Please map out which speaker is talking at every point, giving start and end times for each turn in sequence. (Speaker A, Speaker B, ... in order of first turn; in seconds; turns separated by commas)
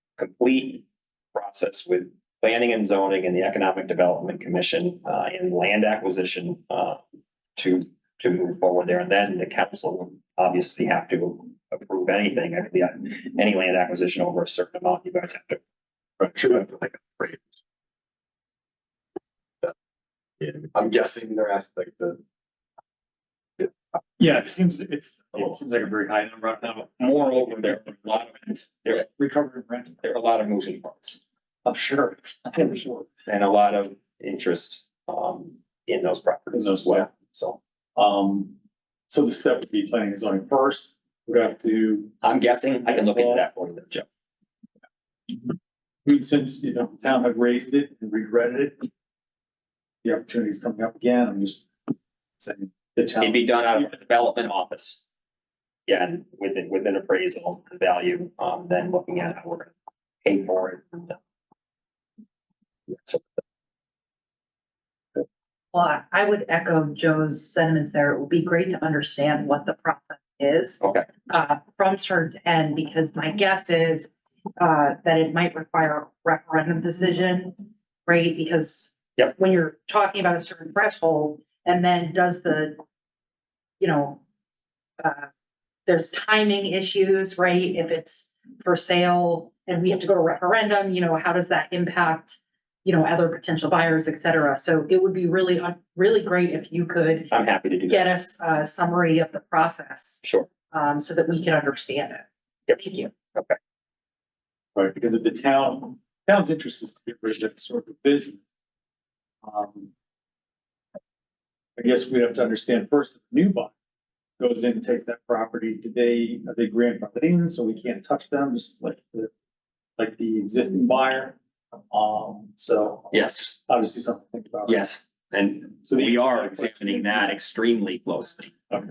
Speaker A: 0.2-7.0, Speaker A: 7.6-15.6, Speaker B: 16.2-17.4, Speaker B: 20.4-22.2, Speaker C: 24.2-27.9, Speaker A: 26.8-29.1, Speaker C: 28.9-29.9, Speaker A: 30.0-31.2, Speaker C: 31.6-33.1, Speaker A: 33.3-37.6, Speaker C: 36.5-37.1, Speaker C: 38.0-38.5, Speaker C: 39.1-42.1, Speaker A: 42.2-44.0, Speaker C: 43.1-43.4, Speaker C: 46.0-48.9, Speaker C: 50.0-51.7, Speaker C: 52.4-53.9, Speaker A: 53.2-55.0, Speaker A: 55.9-59.7, Speaker A: 60.2-61.2, Speaker A: 62.9-63.2, Speaker D: 65.7-82.8, Speaker A: 70.8-71.1, Speaker D: 83.8-84.2, Speaker D: 85.0-85.3, Speaker D: 85.9-102.3, Speaker A: 97.3-98.0, Speaker A: 100.2-100.5, Speaker A: 102.7-103.6, Speaker D: 102.8-103.1, Speaker C: 104.7-108.4, Speaker C: 109.4-109.9, Speaker C: 111.8-113.7, Speaker C: 114.4-119.3, Speaker C: 120.0-121.3, Speaker C: 121.9-124.8, Speaker A: 123.1-123.4, Speaker A: 124.7-128.7, Speaker C: 125.9-127.1